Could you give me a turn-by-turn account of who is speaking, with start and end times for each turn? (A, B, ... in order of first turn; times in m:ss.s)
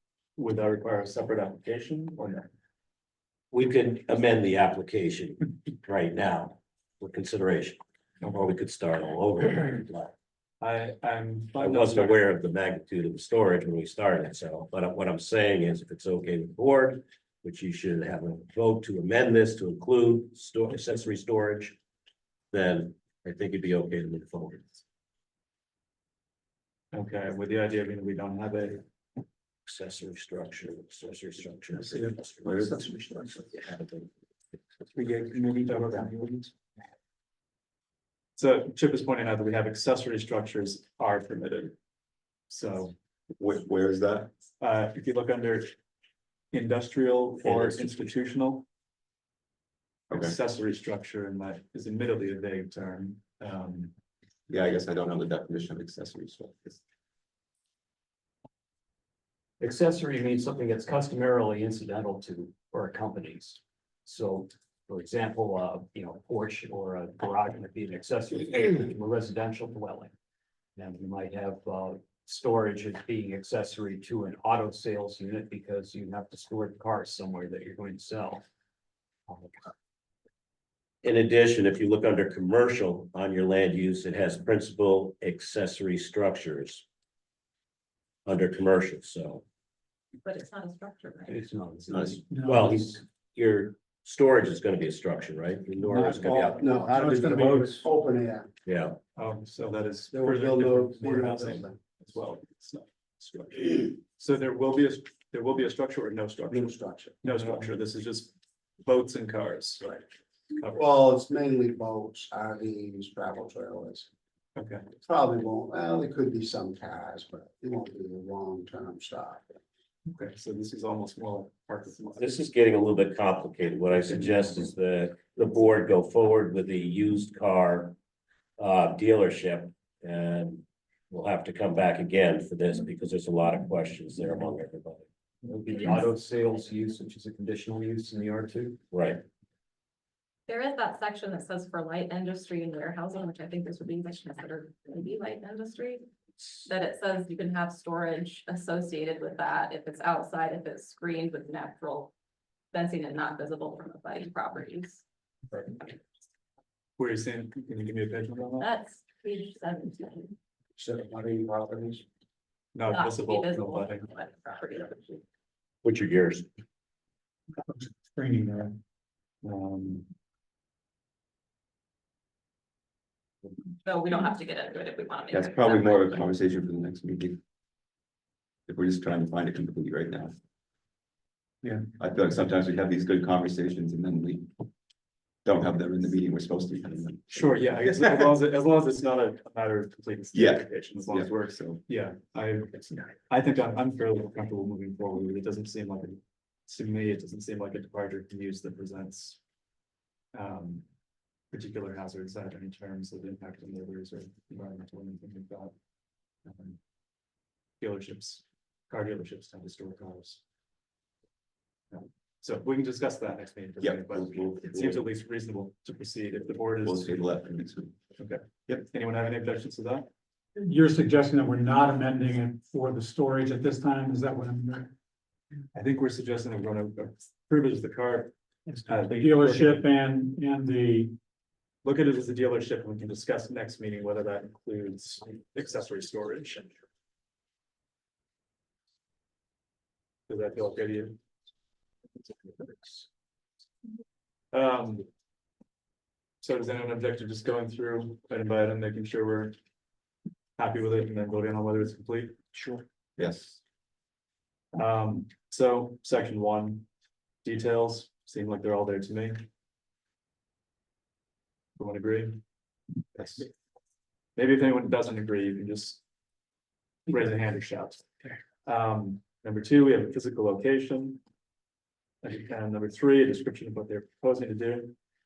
0:00.4-0:02.5 A
0:03.5-0:07.8 B
0:08.2-0:08.5 A
0:08.3-0:10.1 B
0:10.6-0:12.3 A
0:11.6-0:21.8 B
0:22.5-0:24.7 B
0:26.9-0:28.8 A
0:29.7-0:32.8 B
0:32.4-0:33.5 C
0:33.4-0:34.1 B
0:35.0-0:36.4 A
0:38.4-0:41.8 A
0:42.5-0:43.0 A
0:43.4-0:44.3 C
0:44.6-0:45.8 A
0:46.5-0:48.6 A
0:50.1-0:50.3 C
0:50.1-0:53.9 A
0:54.5-0:56.8 C
0:59.6-1:10.1 D
1:10.8-1:18.4 D
1:19.3-1:19.6 D
1:21.0-1:26.8 B
1:28.2-1:29.4 B
1:30.2-1:31.4 E
1:31.3-1:32.2 D
1:31.9-1:36.7 B
1:32.3-1:32.6 F
1:35.9-1:37.6 F
1:36.4-1:38.5 G
1:36.9-1:37.6 D
1:38.6-1:39.0 B
1:39.1-1:51.0 A
1:40.1-1:41.8 G
1:46.5-1:47.4 G
1:50.7-1:54.1 G
1:54.5-1:54.9 A
1:55.0-1:59.6 G
2:00.0-2:02.4 A
2:02.2-2:08.0 B
2:08.6-2:15.0 B
2:15.5-2:18.8 D
2:15.7-2:16.1 E
2:18.9-2:19.2 B
2:20.5-2:26.0 E
2:26.6-2:32.1 E
2:32.7-2:35.0 E
2:37.0-2:38.7 A
2:38.6-2:40.3 E
2:40.8-2:42.0 G
2:42.7-2:44.1 A
2:42.9-2:45.2 E
2:45.8-2:46.4 B
2:47.7-2:48.8 F
2:49.4-2:50.1 A
2:53.8-2:56.2 E
2:55.3-2:57.4 C
2:58.7-3:00.3 C
3:02.0-3:04.5 C
3:05.4-3:08.3 C
3:07.3-3:19.4 A
3:10.3-3:11.7 C
3:20.3-3:20.9 A
3:21.5-3:25.7 A
3:26.4-3:26.8 A
3:27.8-3:30.4 A
3:31.9-3:37.3 A
3:33.8-3:35.1 C
3:36.8-3:38.0 C
3:38.2-3:40.1 A
3:40.6-3:44.9 F
3:45.7-3:49.9 A
3:48.7-3:51.2 F
3:51.8-3:56.8 A
4:00.3-4:01.2 A
4:04.5-4:05.1 A
4:06.4-4:09.6 A
4:10.6-4:12.4 A
4:13.2-4:13.6 C
4:14.7-4:16.9 A
4:17.4-4:19.5 A
4:21.8-4:22.4 A
4:23.2-4:23.4 A
4:24.4-4:26.0 A
4:27.1-4:31.2 A
4:32.2-4:35.0 A